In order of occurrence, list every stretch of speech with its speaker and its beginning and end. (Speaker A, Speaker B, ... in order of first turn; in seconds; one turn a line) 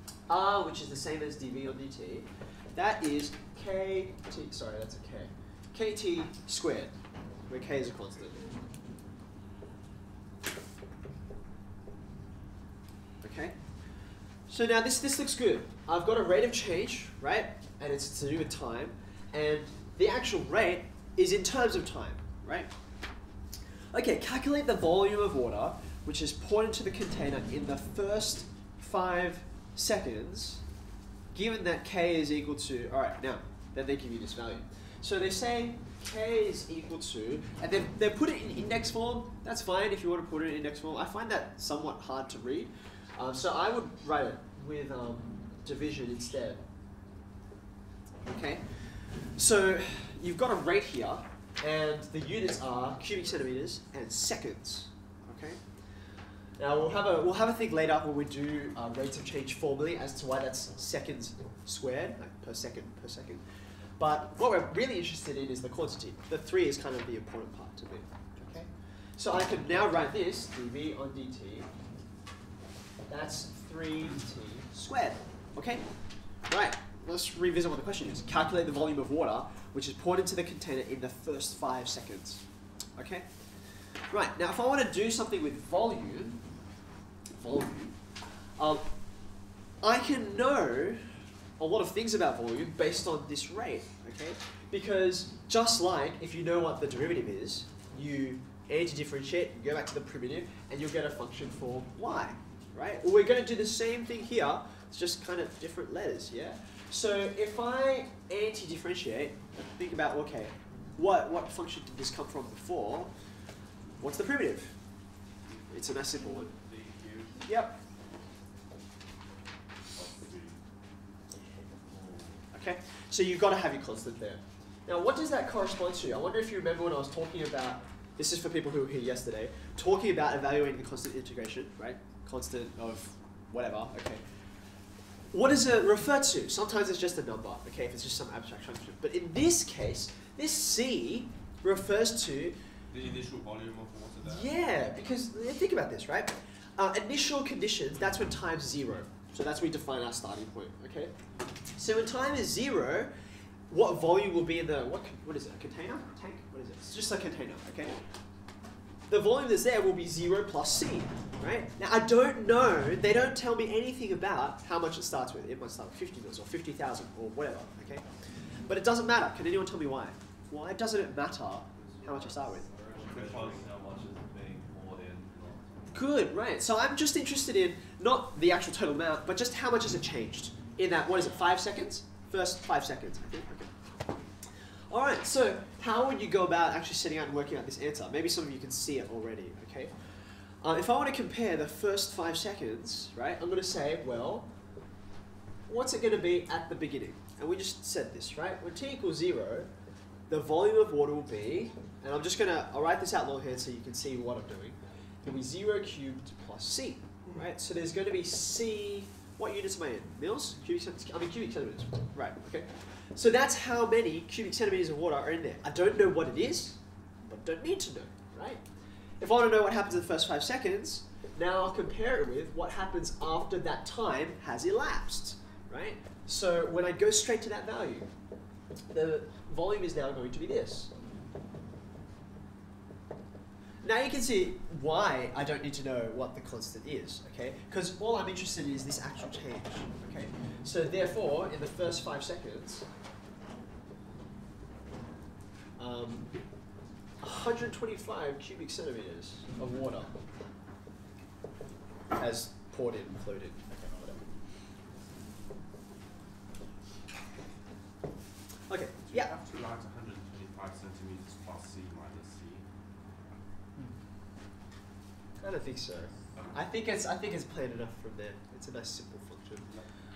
Speaker A: 0.3-6.9
Speaker A: 7.5-8.5
Speaker A: 13.2-13.6
Speaker A: 14.5-22.7
Speaker A: 23.9-30.6
Speaker A: 31.3-46.6
Speaker A: 48.2-55.6
Speaker A: 56.6-63.4
Speaker A: 64.0-71.7
Speaker A: 73.1-75.8
Speaker A: 76.5-82.4
Speaker A: 83.0-83.3
Speaker A: 84.1-86.4
Speaker A: 87.3-88.0
Speaker A: 88.5-88.9
Speaker A: 89.8-113.1
Speaker A: 114.0-114.8
Speaker A: 115.7-116.5
Speaker B: 116.4-117.1
Speaker A: 117.4-117.8
Speaker C: 120.0-120.5
Speaker B: 120.0-120.4
Speaker A: 122.5-134.2
Speaker A: 135.3-142.6
Speaker B: 142.9-144.1
Speaker C: 143.5-144.4
Speaker A: 144.2-151.1
Speaker A: 151.8-153.1
Speaker A: 153.7-157.9
Speaker A: 159.1-168.1
Speaker A: 168.7-172.7
Speaker B: 172.1-173.9
Speaker C: 172.1-175.9
Speaker A: 175.9-183.7
Speaker A: 184.9-189.9
Speaker A: 190.6-194.5
Speaker A: 195.7-199.7
Speaker A: 200.3-218.6
Speaker A: 219.2-228.1
Speaker A: 228.9-230.9
Speaker A: 233.8-242.9
Speaker A: 245.8-246.3
Speaker A: 247.2-250.2
Speaker A: 252.1-254.2
Speaker A: 258.7-259.3
Speaker B: 259.2-262.6
Speaker A: 265.4-269.7